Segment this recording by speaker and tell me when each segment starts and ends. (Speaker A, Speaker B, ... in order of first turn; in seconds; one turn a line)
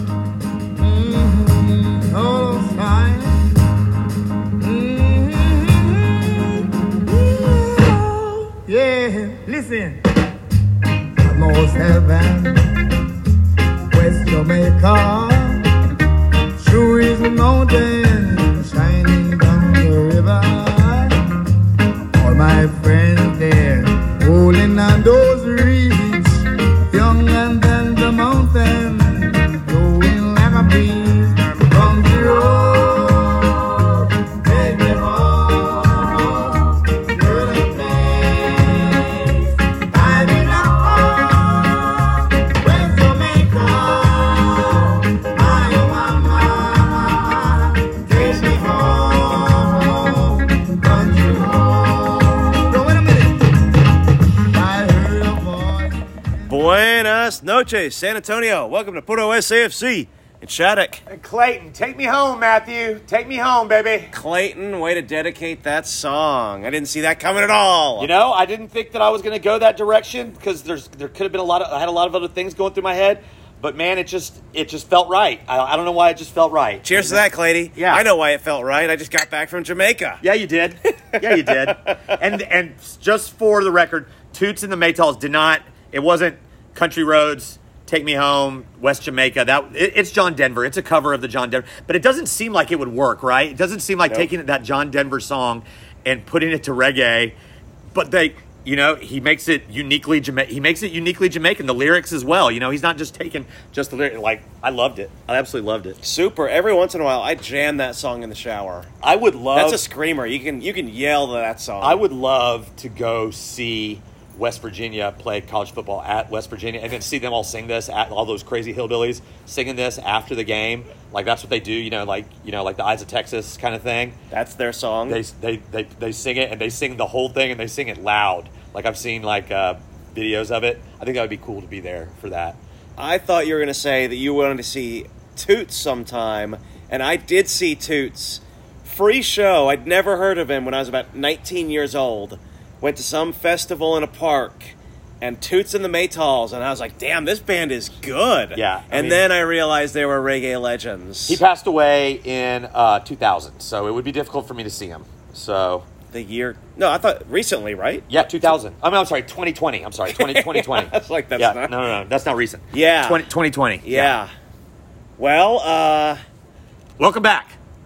Speaker A: 0.8-3.5
Speaker A: 4.6-10.0
Speaker A: 11.2-12.8
Speaker A: 13.9-15.7
Speaker A: 16.6-21.2
Speaker A: 22.2-53.9
Speaker A: 54.5-56.6
Speaker B: 56.5-61.0
Speaker C: 61.1-64.1
Speaker B: 64.1-68.1
Speaker C: 68.0-77.2
Speaker B: 76.8-80.2
Speaker C: 77.8-78.0
Speaker C: 80.2-97.3
Speaker B: 81.1-82.2
Speaker C: 97.9-106.0
Speaker B: 106.0-108.9
Speaker C: 109.0-109.8
Speaker B: 109.5-112.0
Speaker C: 111.8-124.2
Speaker B: 124.3-125.2
Speaker C: 125.1-132.6
Speaker B: 133.0-151.4
Speaker C: 148.5-149.2
Speaker C: 151.3-155.9
Speaker B: 156.1-158.5
Speaker C: 158.1-164.1
Speaker B: 160.1-161.7
Speaker B: 162.7-163.2
Speaker B: 163.8-164.3
Speaker B: 165.2-166.2
Speaker C: 167.0-167.6